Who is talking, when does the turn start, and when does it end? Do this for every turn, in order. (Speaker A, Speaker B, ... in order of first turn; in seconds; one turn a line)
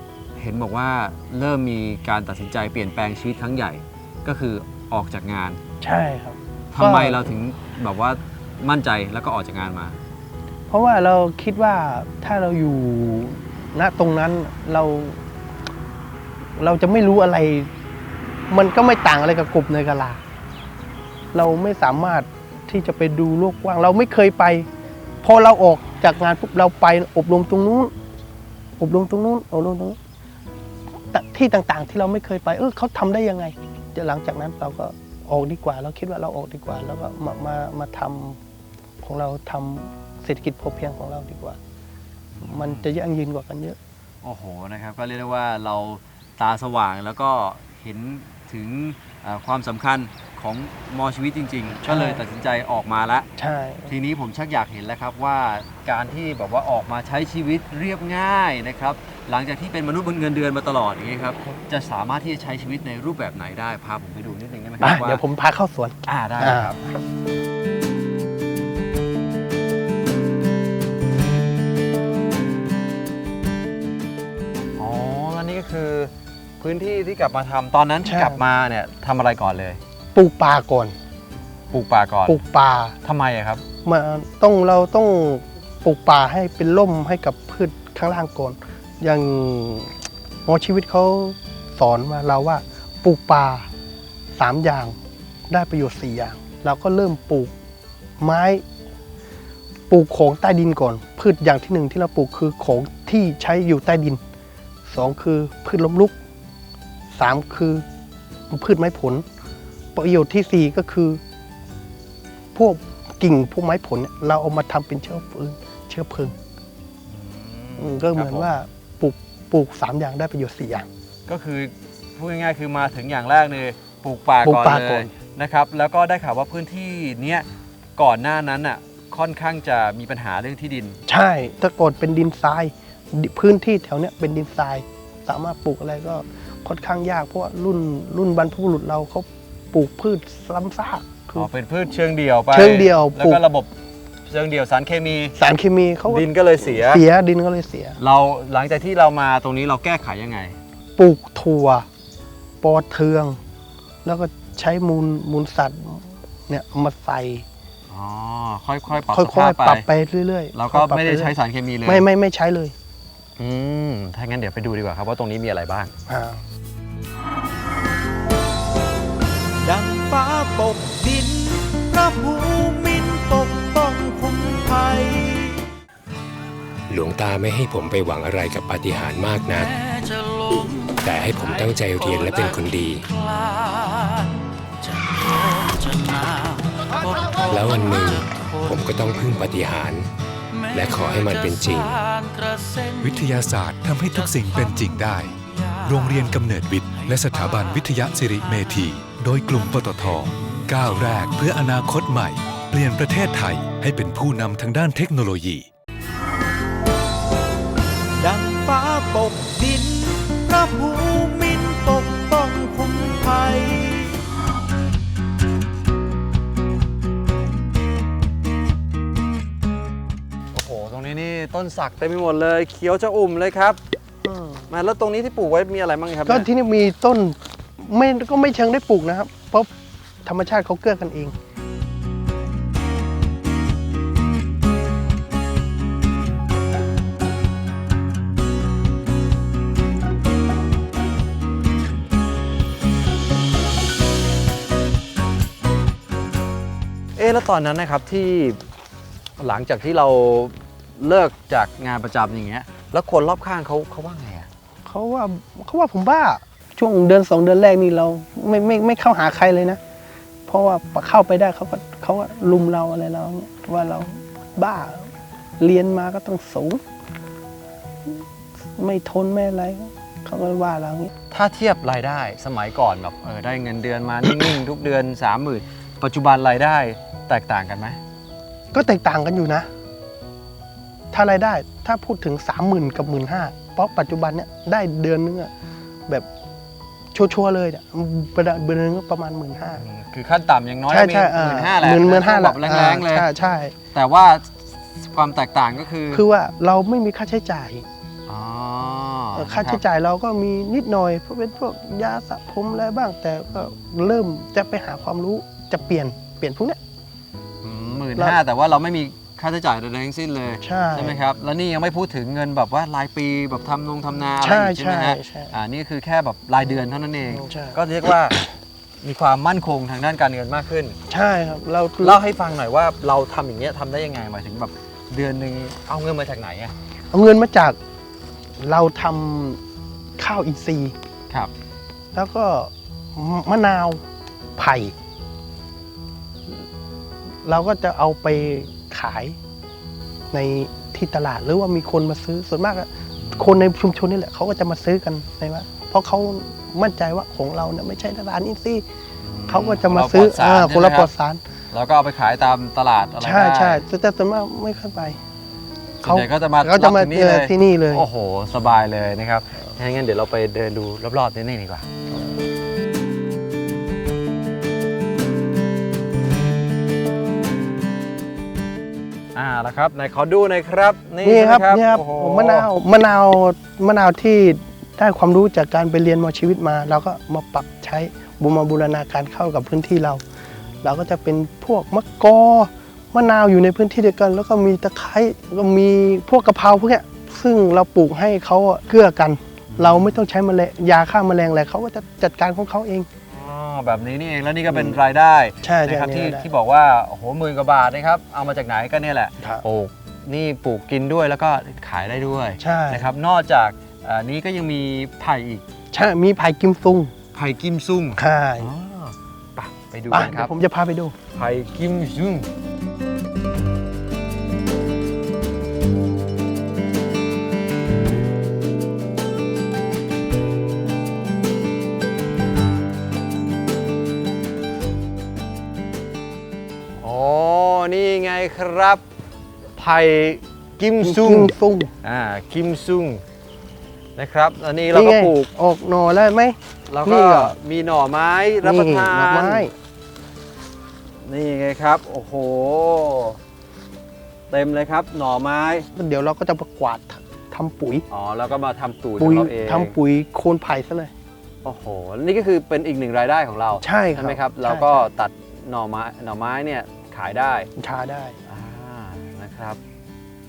Speaker A: 0.4-5.6
Speaker B: 5.8-7.3
Speaker A: 6.7-10.0
Speaker B: 10.7-15.2
Speaker B: 16.6-17.7
Speaker B: 18.5-20.2
Speaker B: 21.3-24.7
Speaker B: 25.2-27.9
Speaker B: 28.8-30.0
Speaker B: 31.1-38.4
Speaker B: 39.0-41.6
Speaker A: 42.4-42.9
Speaker B: 42.4-43.8
Speaker A: 44.2-53.3
Speaker B: 51.8-52.2
Speaker B: 53.4-53.9
Speaker A: 53.9-65.2
Speaker B: 64.8-66.8
Speaker A: 66.0-66.8
Speaker A: 74.8-79.8
Speaker B: 78.0-78.4
Speaker B: 80.1-80.9
Speaker A: 81.7-82.4
Speaker B: 82.3-83.0
Speaker A: 83.0-83.6
Speaker B: 83.8-89.9
Speaker B: 90.5-93.7
Speaker B: 94.3-95.0
Speaker B: 95.5-97.5
Speaker B: 98.2-98.6
Speaker B: 99.9-104.2
Speaker B: 104.9-106.1
Speaker B: 107.1-107.8
Speaker B: 108.5-109.2
Speaker B: 109.9-111.2
Speaker B: 112.5-116.3
Speaker A: 117.1-118.5
Speaker B: 117.8-120.9
Speaker A: 121.3-131.0
Speaker B: 124.4-125.1
Speaker B: 131.1-141.5
Speaker A: 141.3-143.7
Speaker B: 142.5-143.4
Speaker A: 144.2-145.3
Speaker B: 145.4-148.0
Speaker A: 146.1-147.0
Speaker A: 148.0-150.6
Speaker B: 151.0-151.9
Speaker B: 152.6-153.4
Speaker B: 154.0-157.4
Speaker A: 157.9-159.9
Speaker B: 159.1-161.3
Speaker A: 160.5-162.1
Speaker B: 161.8-162.7
Speaker A: 163.4-165.9
Speaker B: 166.1-166.4
Speaker C: 169.6-175.7
Speaker D: 176.9-179.7
Speaker D: 181.0-183.0
Speaker D: 187.4-190.1
Speaker D: 190.7-192.0
Speaker E: 193.0-205.7
Speaker C: 208.2-214.2
Speaker A: 220.5-223.8
Speaker B: 224.2-224.7
Speaker A: 224.7-226.5
Speaker B: 226.2-229.7
Speaker B: 230.2-231.3
Speaker A: 247.2-248.6
Speaker A: 249.4-254.5
Speaker B: 254.8-259.8
Speaker B: 260.5-266.8
Speaker B: 268.8-271.1
Speaker A: 271.3-278.0
Speaker B: 278.7-279.7
Speaker B: 281.1-285.5
Speaker B: 287.1-289.8
Speaker A: 289.8-293.3
Speaker B: 290.9-293.7
Speaker A: 293.9-296.2
Speaker B: 296.1-297.9
Speaker A: 298.3-299.8
Speaker B: 299.3-306.8
Speaker A: 307.6-318.4
Speaker B: 310.6-311.1
Speaker B: 314.4-315.5
Speaker B: 317.3-317.8
Speaker A: 319.0-321.0
Speaker B: 321.1-322.2
Speaker A: 322.0-326.7
Speaker B: 327.1-327.8
Speaker B: 328.6-329.6
Speaker B: 330.2-330.9
Speaker B: 332.1-334.0
Speaker B: 334.6-334.9
Speaker B: 337.4-339.4
Speaker B: 340.3-348.8
Speaker A: 343.2-343.6
Speaker A: 349.2-351.1
Speaker B: 349.5-351.4
Speaker A: 351.7-353.8
Speaker B: 353.2-355.2
Speaker B: 356.0-358.1
Speaker A: 356.0-361.9
Speaker A: 369.3-372.7
Speaker B: 371.2-380.2
Speaker A: 380.5-381.1
Speaker B: 380.8-393.1
Speaker A: 389.7-390.1
Speaker A: 393.3-405.6
Speaker B: 394.7-395.0
Speaker B: 395.6-396.5
Speaker B: 402.6-403.1
Speaker B: 405.9-407.1
Speaker A: 407.3-410.5
Speaker B: 408.2-408.7
Speaker B: 410.1-411.1
Speaker A: 411.3-412.5
Speaker A: 427.0-429.0
Speaker A: 429.8-433.2
Speaker B: 431.0-431.9
Speaker A: 434.1-435.5
Speaker B: 434.9-437.5
Speaker A: 436.9-439.7
Speaker B: 438.6-439.7
Speaker A: 441.2-443.4
Speaker A: 444.5-445.9
Speaker B: 445.9-448.0
Speaker A: 448.1-449.9
Speaker B: 449.2-451.1
Speaker A: 451.6-457.7
Speaker B: 453.8-455.1
Speaker B: 457.8-458.4
Speaker A: 458.5-459.8